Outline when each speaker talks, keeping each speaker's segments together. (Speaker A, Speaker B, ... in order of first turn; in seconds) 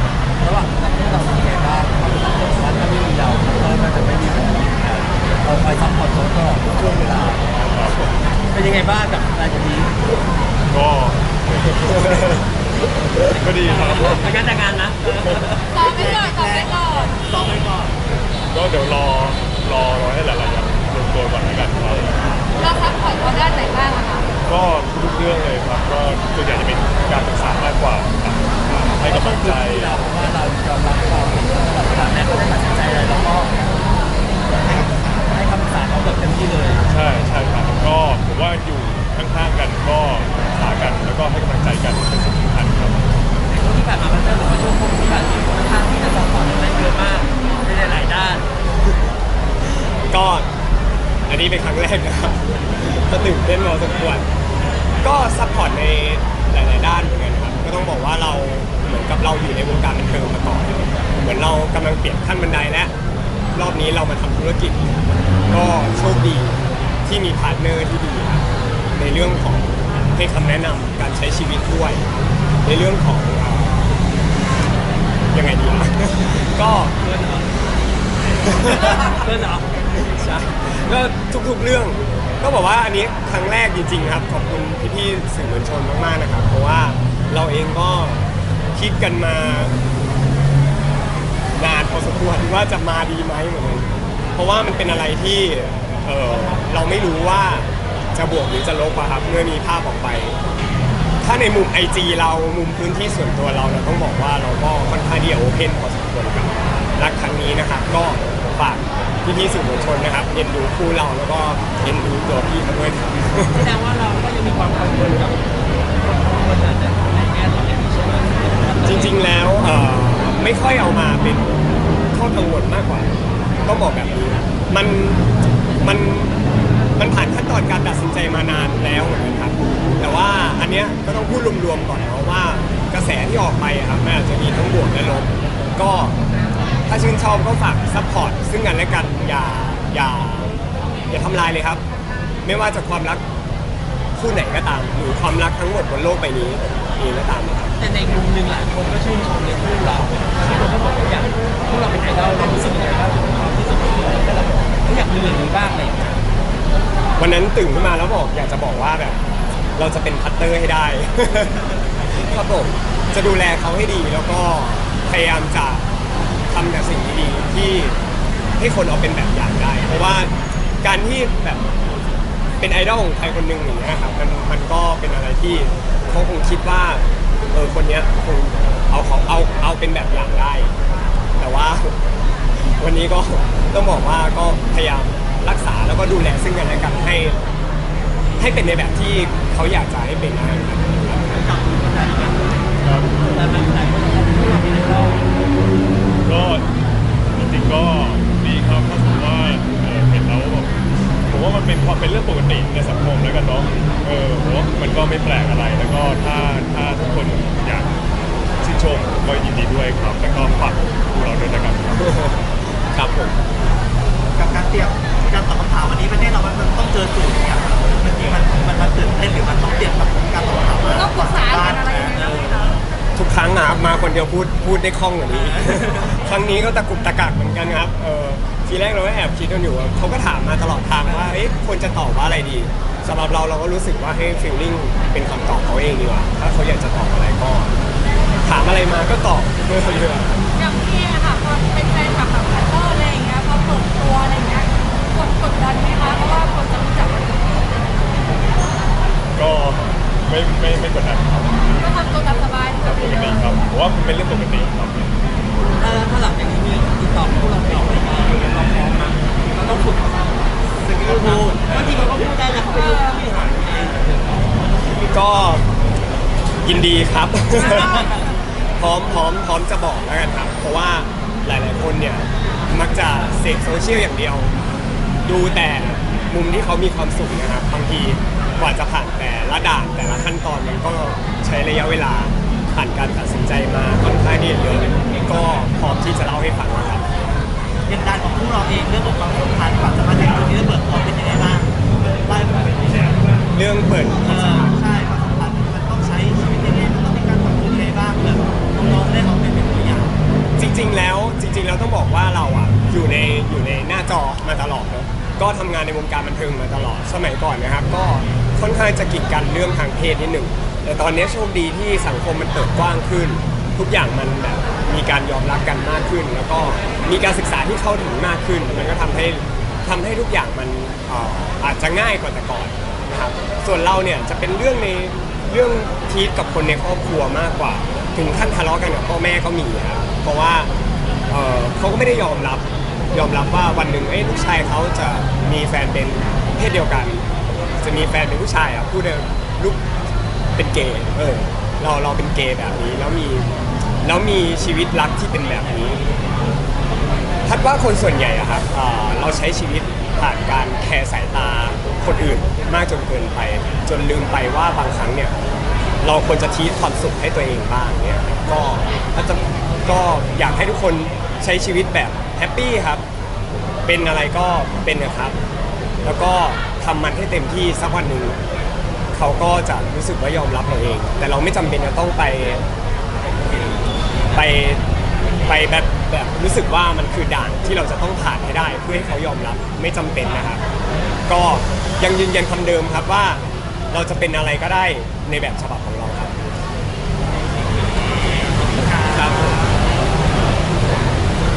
Speaker A: 0.4-7.6, 8.4-9.9, 13.2-15.7, 29.0-33.5, 35.3-36.9, 43.5-48.5, 76.9-77.7, 78.4-79.8, 113.5-115.4, 116.0-119.2, 147.8-156.2, 193.2-195.3, 255.6-264.6, 267.6-268.1
Speaker B: 7.6-8.2, 10.7-12.4, 13.4-14.3, 18.5-22.4, 24.5-30.0, 36.9-43.0, 192.8-193.2, 196.2-196.7, 197.3-200.7, 201.3-207.9, 208.6-212.3, 249.3-251.7, 252.8-255.2
Speaker C: 15.1-17.9, 34.5-35.4, 191.3-192.5, 214.4-222.8, 225.3-226.2, 231.1-231.3, 260.8-262.1, 287.9-293.2, 294.2-300.2, 388.6-389.8
Speaker D: 15.7-17.2, 22.6-24.3, 220.9-222.8, 240.5-247.8, 251.8-253.4, 262.8-263.2
Speaker E: 49.7-50.5, 51.3-54.3, 55.0-62.9, 63.5-64.9, 65.5-72.1, 72.6-73.8, 75.3-77.0, 78.5-79.2, 79.9-89.8, 91.6-100.4, 101.2-113.7, 118.8-121.6, 122.1-123.1, 123.6-125.3, 125.8-126.4, 127.0-136.2, 136.9-140.6, 141.1-141.8, 142.4-143.2, 144.2-147.8, 157.2-159.2, 159.8-165.9, 166.5-168.0, 168.6-171.7, 172.6-180.8, 181.4-182.0, 182.6-187.4, 188.4-191.3, 212.0-213.4, 223.2-237.8, 238.4-240.4, 264.9-265.7, 266.6-274.5, 275.2-287.1, 293.5-294.8, 300.6-330.7, 331.3-339.8, 340.6-346.0, 347.5-355.4, 356.0-363.0, 363.9-365.4, 366.0-368.4, 369.1-372.6, 374.3-374.8, 375.4-380.6, 381.3-386.4, 389.1-389.6